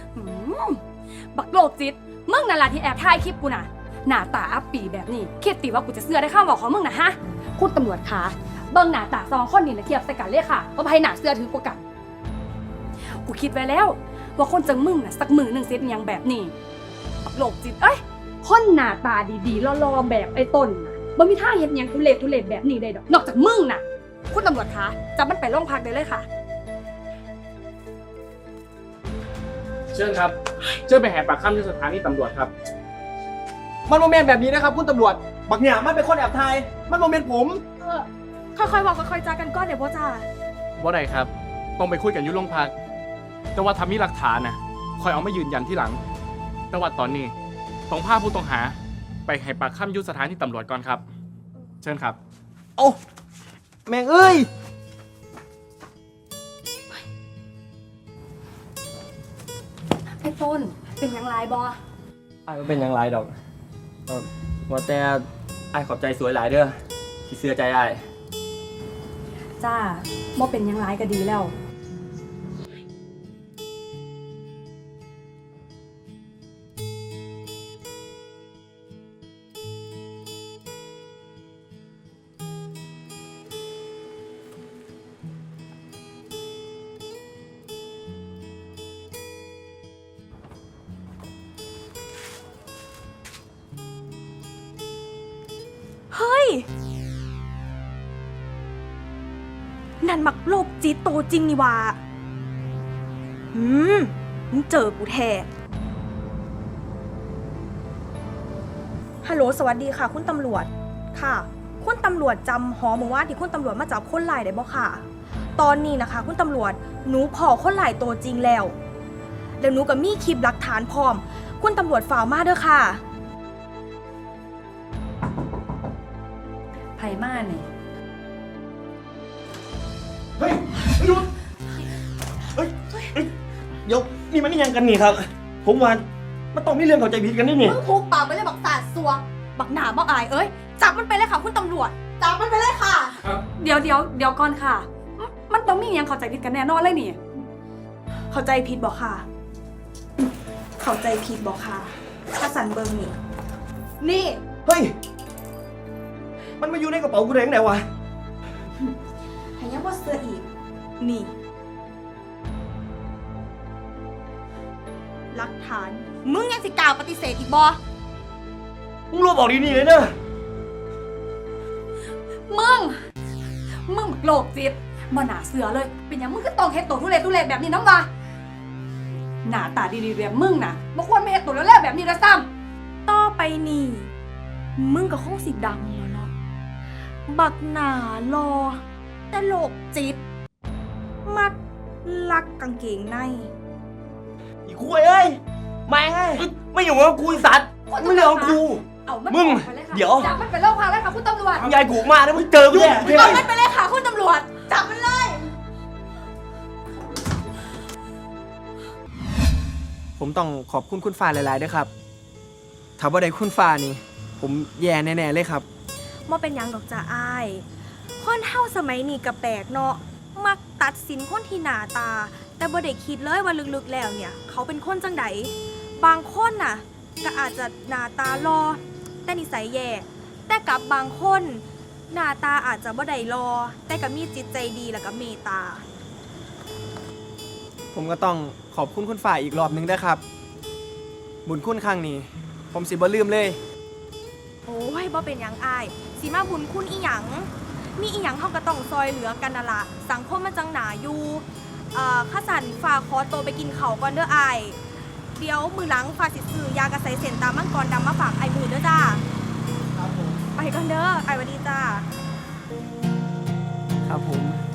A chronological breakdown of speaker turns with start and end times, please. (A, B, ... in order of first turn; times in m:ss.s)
0:00.2-0:00.8 A
0:01.3-0:11.8 A
0:13.2-0:16.5 A
0:17.2-0:26.3 A
0:29.9-0:32.5 B
0:33.9-0:37.6 C
0:37.8-0:40.3 D
0:40.8-0:42.8 B
0:43.6-0:46.0 B
0:46.7-0:47.4 B
0:47.9-0:51.1 B
0:51.8-0:52.2 B
0:53.9-0:54.4 C
1:00.2-1:01.8 A
1:02.5-1:03.3 E
1:04.1-1:08.0 E
1:09.6-1:11.5 A
1:36.1-1:36.7 D
1:40.0-1:42.0 D
1:43.5-1:45.5 D
1:49.2-1:55.0 D
1:55.6-1:58.8 D
1:59.6-2:03.0 D
2:07.0-2:07.7 A
2:10.4-2:11.3 E
2:12.6-2:13.3 E
2:13.9-2:17.8 E
2:17.6-2:23.3 D
2:23.6-2:27.2 A
2:28.3-2:29.3 D
2:30.8-2:33.2 D
2:34.0-2:34.4 D
2:34.6-2:34.9 E
2:36.6-2:37.8 E
2:39.6-2:40.5 D
2:41.0-2:41.3 D
2:45.3-2:47.8 D
2:49.1-2:50.2 E
2:52.5-2:53.0 A
2:53.9-2:58.1 A
2:59.4-3:02.5 A
3:03.1-3:04.1 D
3:04.8-3:06.3 D
3:07.3-3:10.2 D
3:11.3-3:13.5 D
3:14.7-3:20.3 E
3:17.9-3:21.7 A
3:21.6-3:23.4 E
3:22.7-3:23.1 D
3:22.8-3:25.5 A
3:30.2-3:31.9 C
3:33.0-3:35.7 C
3:36.3-3:37.7 D
3:38.2-3:55.8 D
3:57.9-4:00.2 C
4:01.5-4:03.6 C
4:04.7-4:14.8 D
4:15.4-4:19.2 D
4:20.0-4:20.4 C
4:20.6-4:22.1 D
4:24.1-4:24.6 C